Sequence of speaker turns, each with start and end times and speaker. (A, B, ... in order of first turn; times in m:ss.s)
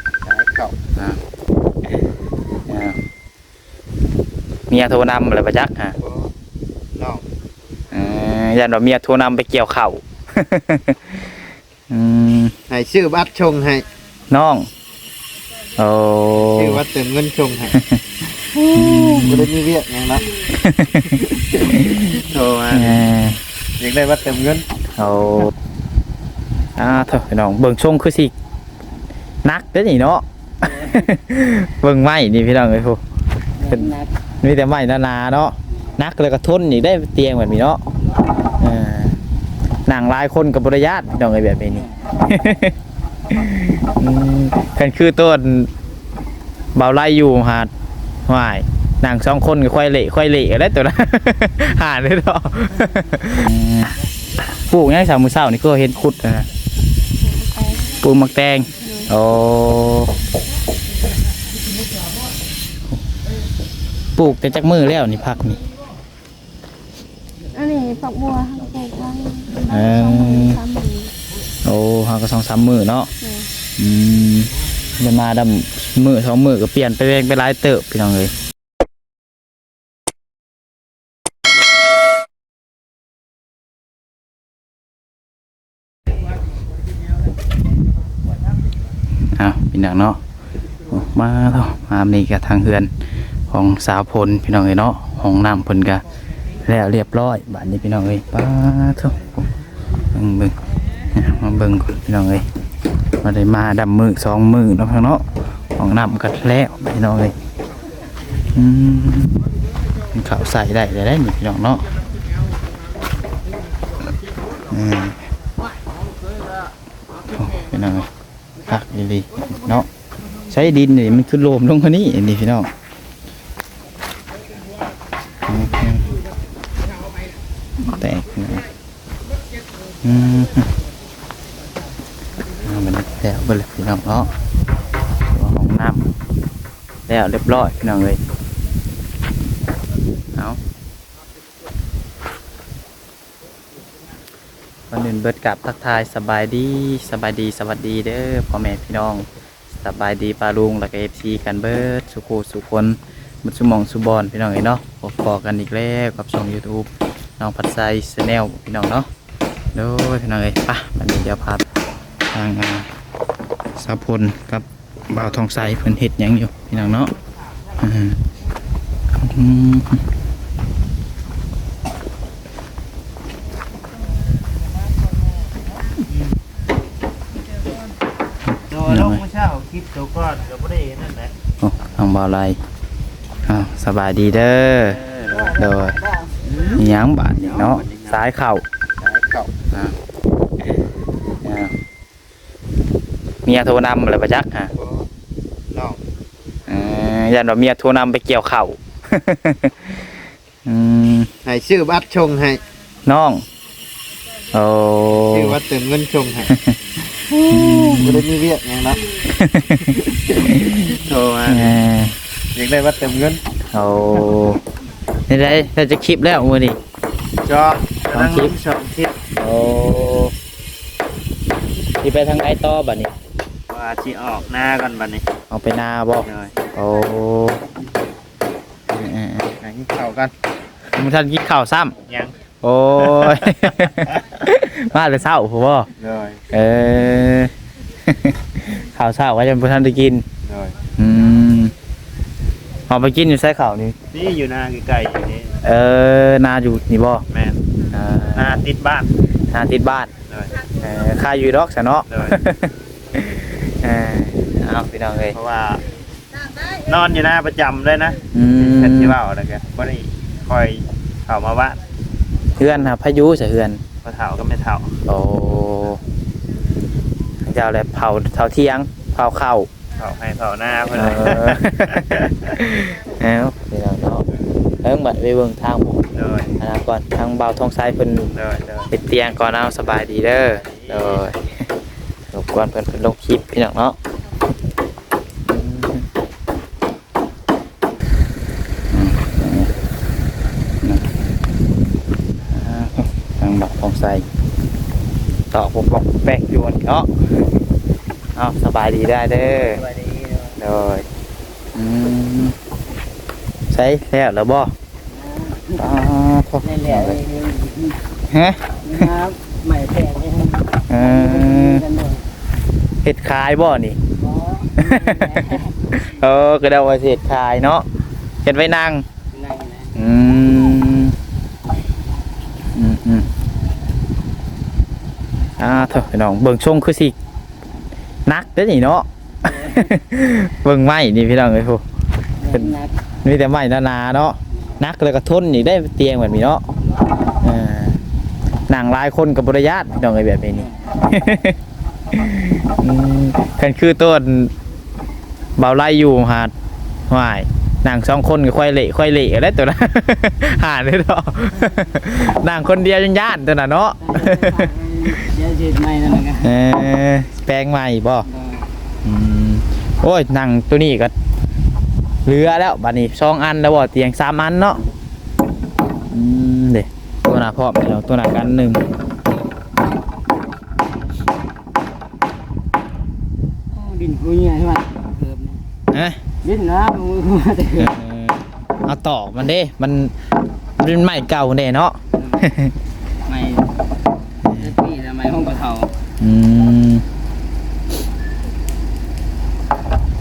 0:00.2-0:00.8 A
0:02.7-0:03.0 B
0:04.7-0:06.0 B
0:06.0-0:06.3 A
0:07.0-0:07.2 A
0:07.9-0:11.4 B
0:11.9-0:12.5 B
0:12.7-0:13.8 A
0:14.3-0:14.7 B
0:15.8-0:16.8 B
0:16.4-0:17.8 A
0:17.7-0:18.0 B
0:18.6-0:19.2 C
0:18.7-0:19.5 B
0:19.2-0:20.4 A
0:20.5-0:22.1 B
0:22.1-0:23.0 A
0:22.7-0:23.4 B
0:23.8-0:24.6 A
0:25.0-0:25.5 B
0:26.8-0:28.3 B
0:29.4-0:33.0 B
0:30.7-0:31.0 D
0:33.6-0:34.1 D
0:33.7-0:37.8 B
0:38.6-0:39.2 B
0:39.9-0:42.7 B
0:43.3-0:45.7 B
0:46.7-0:47.7 B
0:48.3-0:54.0 B
0:54.7-0:56.5 B
0:57.2-0:57.8 C
0:58.0-1:00.1 B
0:58.8-0:59.1 C
1:04.2-1:05.6 B
1:07.5-1:11.1 C
1:09.7-1:10.6 B
1:11.6-1:13.1 B
1:13.2-1:13.5 C
1:13.8-1:18.3 B
1:29.4-1:30.2 B
1:30.9-1:32.9 B
1:33.5-1:36.0 B
1:36.6-1:39.5 B
1:40.1-1:40.6 B
1:41.1-1:42.5 B
1:43.2-1:45.2 B
1:45.8-1:47.3 B
1:48.5-1:49.3 B
1:50.1-1:51.9 B
1:54.7-1:55.2 B
1:57.3-1:58.1 B
1:58.7-1:59.9 B
2:00.5-2:02.7 B
2:05.5-2:06.1 B
2:07.8-2:08.6 B
2:10.0-2:10.7 B
2:12.6-2:14.3 B
2:15.3-2:16.0 B
2:17.1-2:18.2 B
2:24.9-2:36.9 B
2:37.4-2:39.1 B
2:39.7-2:41.6 B
2:42.3-2:42.9 B
2:43.8-2:47.1 B
2:47.8-2:48.2 B
2:49.2-2:50.0 B
2:58.7-3:01.3 A
2:58.9-2:59.2 B
3:01.6-3:02.6 B
3:03.5-3:05.0 B
3:04.9-3:05.6 A
3:05.5-3:06.0 B
3:06.5-3:06.8 A
3:06.7-3:08.6 B
3:07.5-3:08.2 A
3:09.0-3:09.5 A
3:11.4-3:11.7 B
3:13.5-3:14.7 B
3:14.7-3:15.1 A
3:15.7-3:16.0 A
3:16.7-3:20.1 B
3:20.7-3:21.3 B
3:21.4-3:22.6 A
3:23.1-3:23.4 B
3:24.5-3:25.6 B
3:25.1-3:26.5 A
3:27.5-3:28.2 B
3:27.6-3:27.9 C
3:28.0-3:29.0 A
3:29.3-3:31.0 B
3:30.9-3:31.7 A
3:31.5-3:32.2 B
3:32.6-3:33.4 A
3:33.7-3:34.6 B
3:35.3-3:36.8 B
3:37.5-3:39.1 A
3:38.1-3:38.5 B
3:39.4-3:40.3 B
3:42.0-3:43.1 B
3:43.7-3:45.2 A
3:45.5-3:47.7 B
3:46.2-3:46.6 A
3:48.9-3:49.5 B
3:49.6-3:50.3 A
3:50.9-3:51.9 B
3:52.1-3:52.3 A
3:52.6-3:55.9 B
3:56.0-3:56.4 A
3:56.5-3:57.5 B
3:58.1-4:00.2 B
4:00.5-4:00.8 A
4:01.0-4:01.7 B
4:02.9-4:04.0 B
4:04.1-4:05.6 A
4:05.6-4:07.2 B
4:07.3-4:07.6 A
4:07.9-4:08.6 B
4:08.3-4:09.1 A
4:09.5-4:10.1 B
4:10.8-4:15.4 B
4:12.1-4:12.4 A
4:15.3-4:15.8 A
4:16.7-4:21.8 A
4:18.3-4:19.2 B
4:22.6-4:23.8 B
4:24.0-4:24.9 A
4:25.0-4:26.0 B
4:27.4-4:29.7 B
4:30.0-4:32.3 A
4:30.9-4:34.2 B
4:34.8-4:38.3 B
4:36.2-4:36.5 A
4:38.3-4:38.9 A
4:38.9-4:41.4 B
4:40.4-4:41.2 A
4:42.3-4:44.0 B
4:45.5-4:46.0 B
4:48.9-4:49.7 B
4:50.8-4:51.1 B
4:52.5-4:54.2 B
4:55.5-4:57.1 B
4:58.4-4:59.8 B
4:59.4-5:00.6 D
5:00.6-5:01.0 B
5:01.8-5:02.5 B
5:03.7-5:04.7 B
5:05.1-5:05.8 D
5:05.8-5:07.2 B
5:06.6-5:08.0 D
5:08.3-5:09.1 B
5:08.8-5:12.2 D
5:10.9-5:11.8 B
5:13.0-5:14.0 B
5:14.1-5:15.7 D
5:14.8-5:17.8 B
5:18.4-5:19.0 B
5:19.3-5:19.9 D
5:19.9-5:21.1 B
5:22.8-5:23.2 B
5:25.6-5:27.1 B
5:28.2-5:31.8 B
5:29.5-5:29.8 D
5:32.4-5:32.9 D
5:32.5-5:36.6 B
5:37.4-5:38.0 B
5:38.7-5:41.6 B
5:42.1-5:44.5 B
5:45.6-5:46.5 B
5:47.1-5:55.3 B
5:54.0-5:56.5 D
5:56.4-5:58.3 B
5:58.2-5:58.7 D
5:59.0-6:01.1 B
6:02.2-6:04.8 B
6:06.1-6:08.8 B
6:13.7-6:15.6 D
6:15.9-6:16.2 B
6:16.4-6:17.8 D
6:17.8-6:20.1 B
6:20.8-6:22.7 B
6:23.2-6:23.8 D
6:24.4-6:24.8 B
6:24.6-6:25.9 D
6:26.2-6:27.0 B